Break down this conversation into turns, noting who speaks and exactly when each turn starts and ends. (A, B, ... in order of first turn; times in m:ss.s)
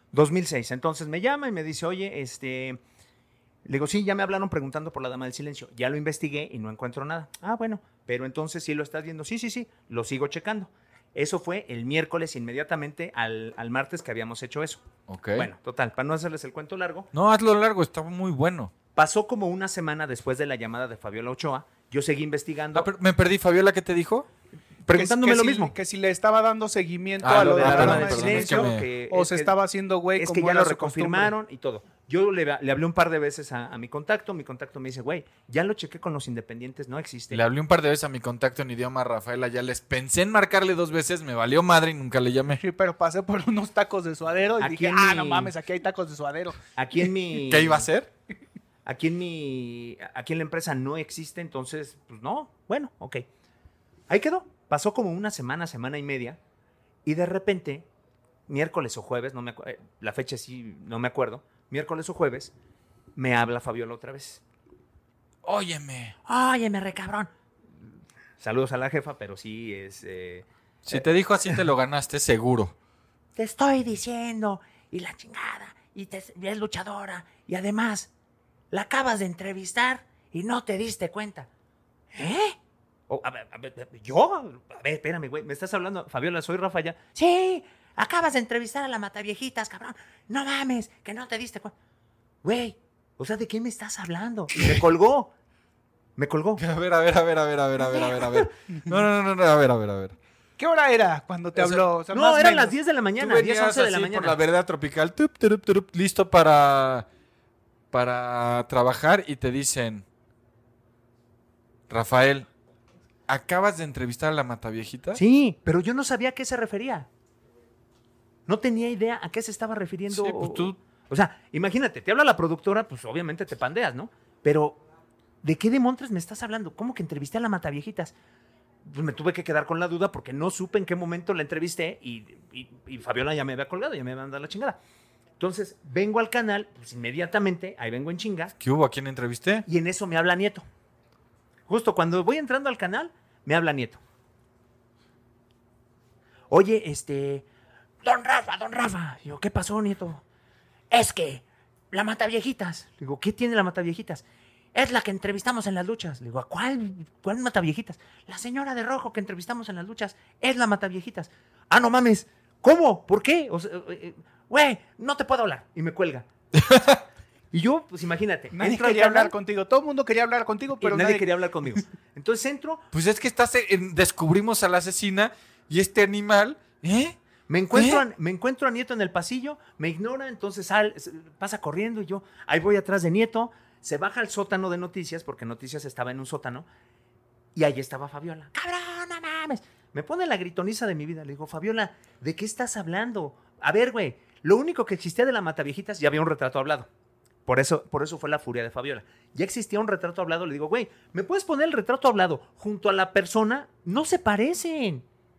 0:00.1-0:02.8 A
0:03.6-0:14.8 A
0:15.1-0:15.5 B
0:15.4-0:17.1 A
0:17.1-0:18.7 B
0:19.0-0:22.9 A
0:22.8-0:24.3 B
0:24.8-0:25.7 A
0:24.9-0:31.3 C
0:27.2-0:28.9 B
0:27.2-0:29.5 A
0:30.2-0:37.4 A
0:37.3-0:42.6 B
0:42.6-0:46.6 C
0:44.6-0:45.5 A
0:46.8-0:47.9 A
0:47.5-0:48.1 B
0:48.9-0:53.2 A
0:54.1-0:56.4 A
0:57.0-0:57.9 A
0:58.5-1:02.5 A
1:03.2-1:04.4 A
1:05.4-1:06.2 B
1:06.3-1:07.3 A
1:08.4-1:11.6 A
1:10.9-1:12.8 B
1:13.4-1:18.1 A
1:18.7-1:21.5 A
1:22.1-1:22.6 A
1:23.1-1:31.7 A
1:32.4-1:35.3 A
1:36.2-1:36.6 A
1:36.6-1:40.2 B
1:37.8-1:38.5 A
1:40.6-1:42.8 C
1:41.7-1:44.4 A
1:43.2-1:47.1 B
1:47.9-1:50.0 B
1:51.9-1:52.5 B
1:53.3-1:55.2 B
1:55.2-1:57.1 A
1:58.5-2:04.8 A
2:00.1-2:00.8 B
2:05.4-2:08.1 A
2:08.8-2:14.8 A
2:15.4-2:18.5 A
2:18.6-2:19.7 B
2:19.7-2:20.6 A
2:21.7-2:24.0 A
2:26.5-2:27.5 A
2:28.0-2:30.2 A
2:30.9-2:46.3 A
2:46.6-2:47.0 B
2:47.5-2:49.3 A
2:48.5-2:51.3 C
2:50.8-2:52.9 A
2:52.9-2:57.2 B
2:57.5-3:06.7 A
2:57.7-2:58.0 B
3:07.6-3:16.9 A
3:17.5-3:25.0 A